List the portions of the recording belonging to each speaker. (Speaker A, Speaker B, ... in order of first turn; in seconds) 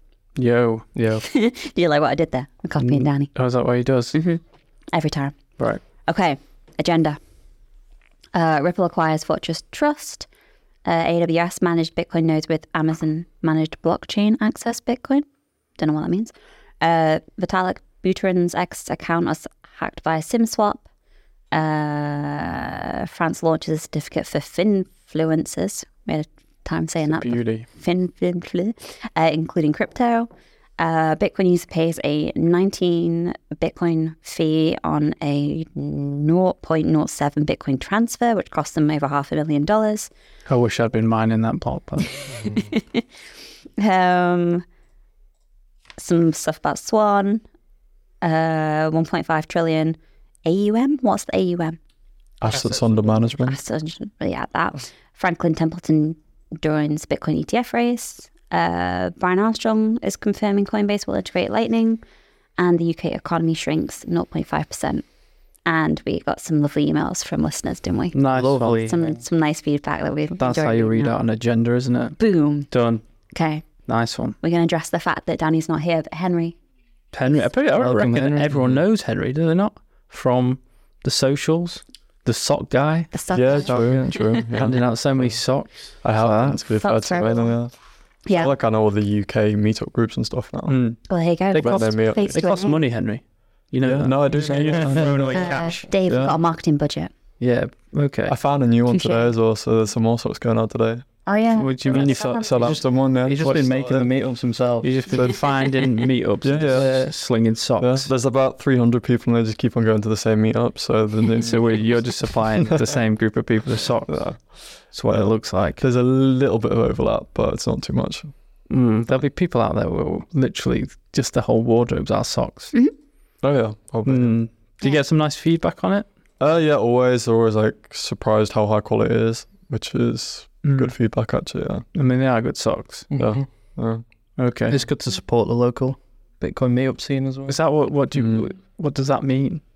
Speaker A: 0.4-0.9, 2.8-4.2, 27.1-27.7, 40.5-42.3, 68.1-68.9, 70.4-72.2, 72.7-73.0, 73.9-74.4, 77.1-83.1, 84.5-86.6, 90.7-95.9, 97.4-98.3, 101.6-102.8, 103.4-103.8, 104.8-108.1, 111.3-115.8, 118.7-122.7, 124.1-126.1, 130.6-130.9, 131.9-133.1, 134.4-134.8, 137.5-139.6
Speaker B: 0.9-1.2, 52.5-53.1, 68.3-69.2, 77.7-78.8, 83.7-84.1, 102.6-105.0, 106.7-107.2, 133.1-133.5, 134.7-137.6
Speaker C: 1.2-3.4, 4.1-7.2, 8.3-10.3, 10.8-15.3, 15.8-20.9, 21.5-40.1, 42.4-43.0, 43.8-44.6, 46.0-47.4, 48.2-51.8, 53.4-62.0, 62.6-65.0, 65.7-71.2, 72.2-72.7, 73.3-73.7, 74.4-76.6, 83.1-84.4, 86.8-87.6, 88.2-88.5, 91.1-92.8, 95.3-97.1, 98.9-99.3, 101.3-102.8
Speaker D: 52.4-53.6, 83.3-85.4, 86.0-90.8, 91.7-92.4, 93.8-96.4, 98.3-101.1, 101.9-104.1, 105.1-105.4, 106.4-107.2, 107.8-112.2, 114.1-118.3, 123.4-124.4, 126.4-131.9, 133.2-134.0, 138.2-138.5